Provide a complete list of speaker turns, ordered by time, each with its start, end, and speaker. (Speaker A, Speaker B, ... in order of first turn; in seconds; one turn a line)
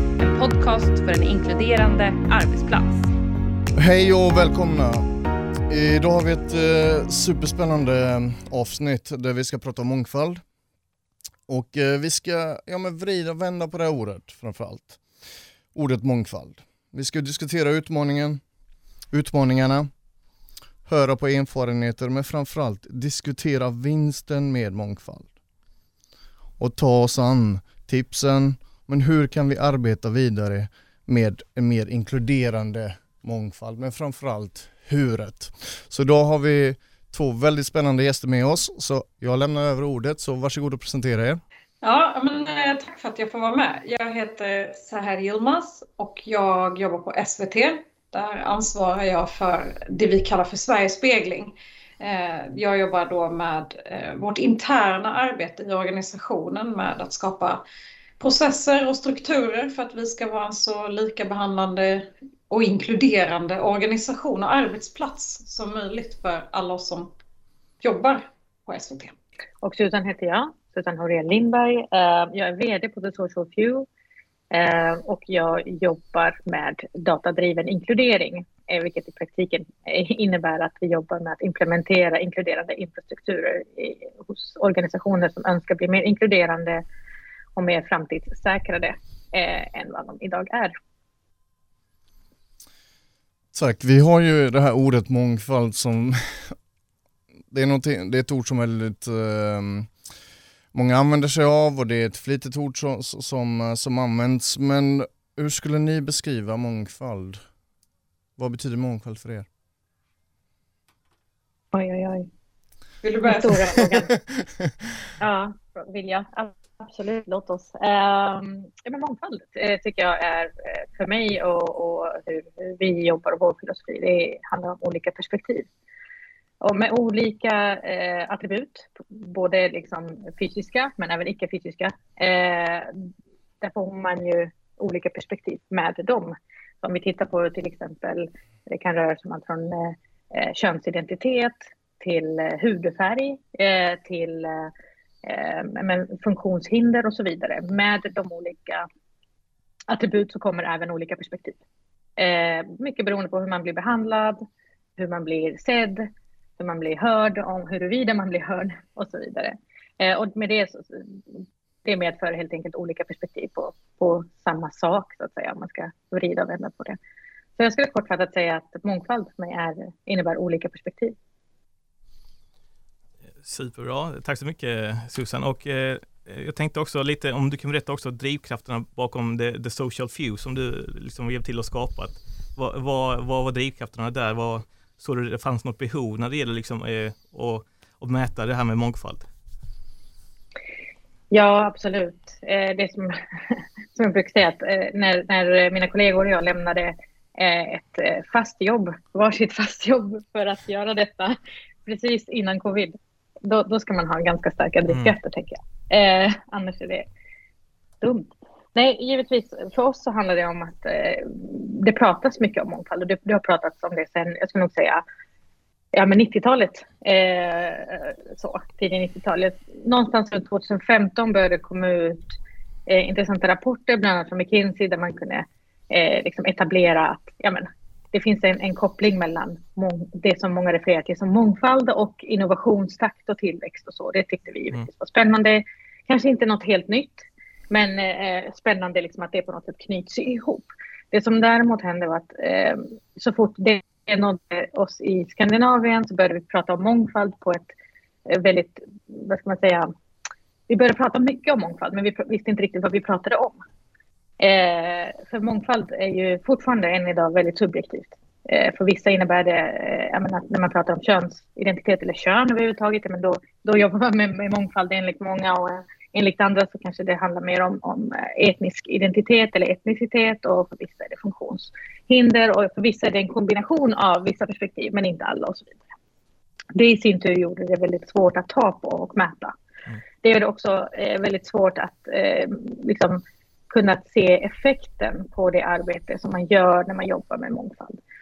Speaker A: 0.2-3.1
Speaker B: 3.8-5.0
Speaker B: 5.7-10.4
Speaker B: 11.5-15.0
Speaker B: 15.7-18.4
Speaker B: 19.1-19.9
Speaker B: 20.9-25.3
Speaker B: 26.6-41.4
Speaker C: 41.8-57.6
Speaker C: 58.2-67.1
Speaker C: 67.8-69.1
Speaker D: 69.6-73.9
Speaker D: 74.5-86.8
Speaker D: 87.5-90.8
Speaker B: 93.5-96.5
Speaker B: 97.5-99.9
Speaker B: 100.7-107.4
Speaker B: 108.4-109.5
Speaker D: 111.7-112.3
Speaker C: 113.0-113.8
Speaker D: 113.2-114.1
Speaker D: 115.2-125.7
Speaker D: 126.6-133.1
Speaker D: 133.6-144.7
Speaker D: 145.2-148.9
Speaker D: 149.9-151.6
Speaker D: 152.2-154.4
Speaker D: 155.0-156.1
Speaker D: 156.6-167.0
Speaker D: 167.6-171.1
Speaker E: 173.4-189.2
Speaker D: 191.3-207.1
Speaker E: 204.9-205.1
Speaker D: 208.0-215.0
Speaker D: 215.9-222.3
Speaker D: 222.9-247.7
Speaker D: 248.3-249.9
Speaker D: 250.7-253.6
Speaker D: 254.4-275.8
Speaker D: 276.7-279.5
Speaker D: 280.2-288.0